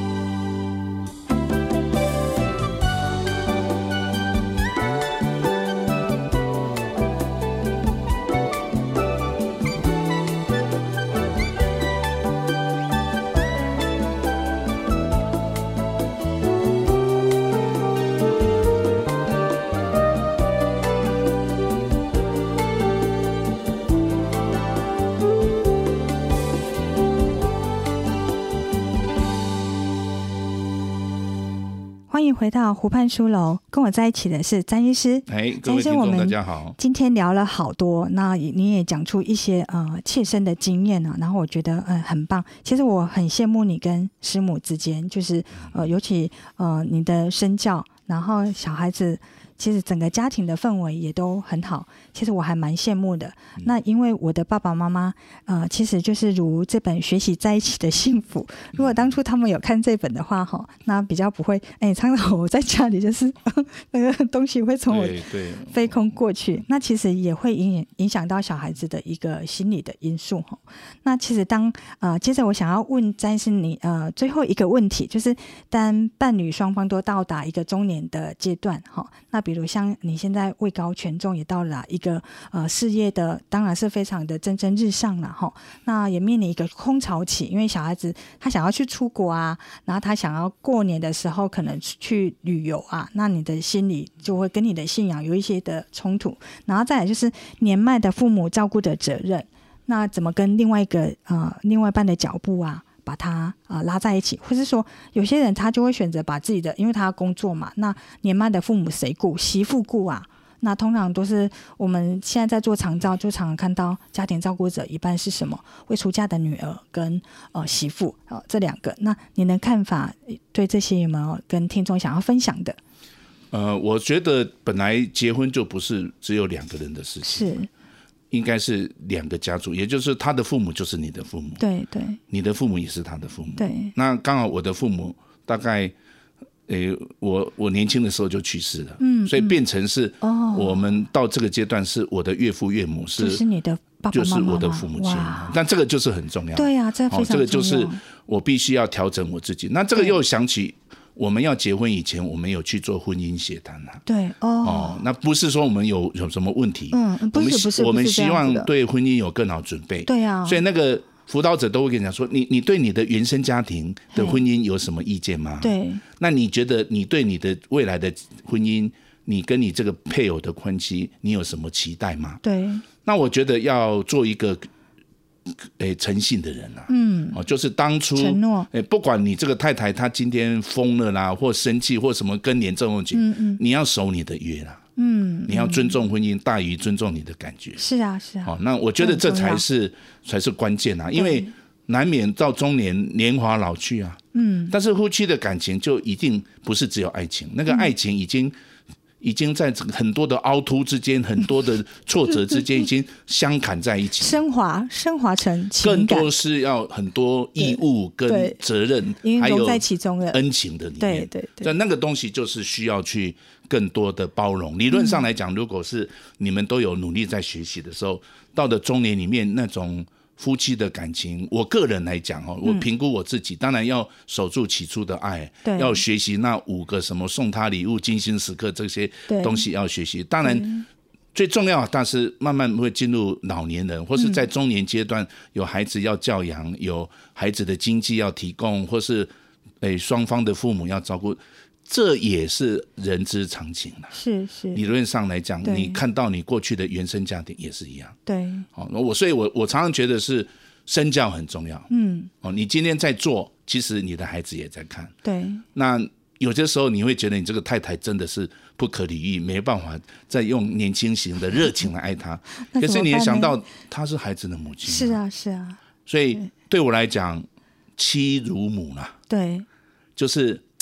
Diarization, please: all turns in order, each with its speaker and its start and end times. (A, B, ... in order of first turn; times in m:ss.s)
0:32.1-2:02.8 A
0:35.3-0:36.8 B
0:58.8-0:59.1 B
1:04.9-1:06.0 B
2:03.5-2:07.5 B
2:07.2-2:07.7 A
2:08.3-2:11.6 B
2:11.6-2:12.2 A
2:12.3-2:15.9 B
2:13.6-2:13.9 A
2:16.7-2:23.4 B
2:19.0-2:19.6 A
2:20.2-2:20.8 A
2:23.2-2:25.6 A
2:24.1-2:34.0 B
2:26.6-2:28.0 A
2:34.1-2:35.0 A
2:34.6-2:52.4 B
2:36.9-2:38.7 A
2:40.1-2:40.6 A
2:44.1-2:44.4 A
2:45.6-2:46.0 A
2:52.4-2:52.8 A
2:53.0-2:54.7 B
2:55.5-3:04.8 B
2:56.9-2:57.4 A
2:58.2-2:58.7 A
3:03.1-3:03.6 A
3:05.0-3:06.0 A
3:05.5-3:07.8 B
3:07.8-3:09.6 A
3:08.4-3:18.5 B
3:11.2-3:11.5 A
3:14.3-3:14.7 A
3:19.2-3:24.4 B
3:24.2-3:26.3 A
3:25.8-3:50.7 B
3:27.6-3:28.6 A
3:29.2-3:30.4 A
3:31.0-3:31.7 A
3:34.9-3:35.2 A
3:45.6-3:46.0 A
3:49.3-3:49.6 A
3:50.4-3:50.8 A
3:51.3-4:04.1 B
4:04.1-4:04.9 A
4:04.7-4:08.2 B
4:05.6-4:06.0 A
4:08.3-4:08.7 A
4:08.8-4:11.9 B
4:11.9-4:12.3 A
4:12.4-4:15.1 B
4:15.2-4:15.6 A
4:15.7-4:25.2 B
4:22.7-4:23.6 A
4:24.8-4:25.8 A
4:26.1-4:27.5 B
4:28.0-4:29.1 B
4:29.3-4:29.7 A
4:30.2-4:30.6 B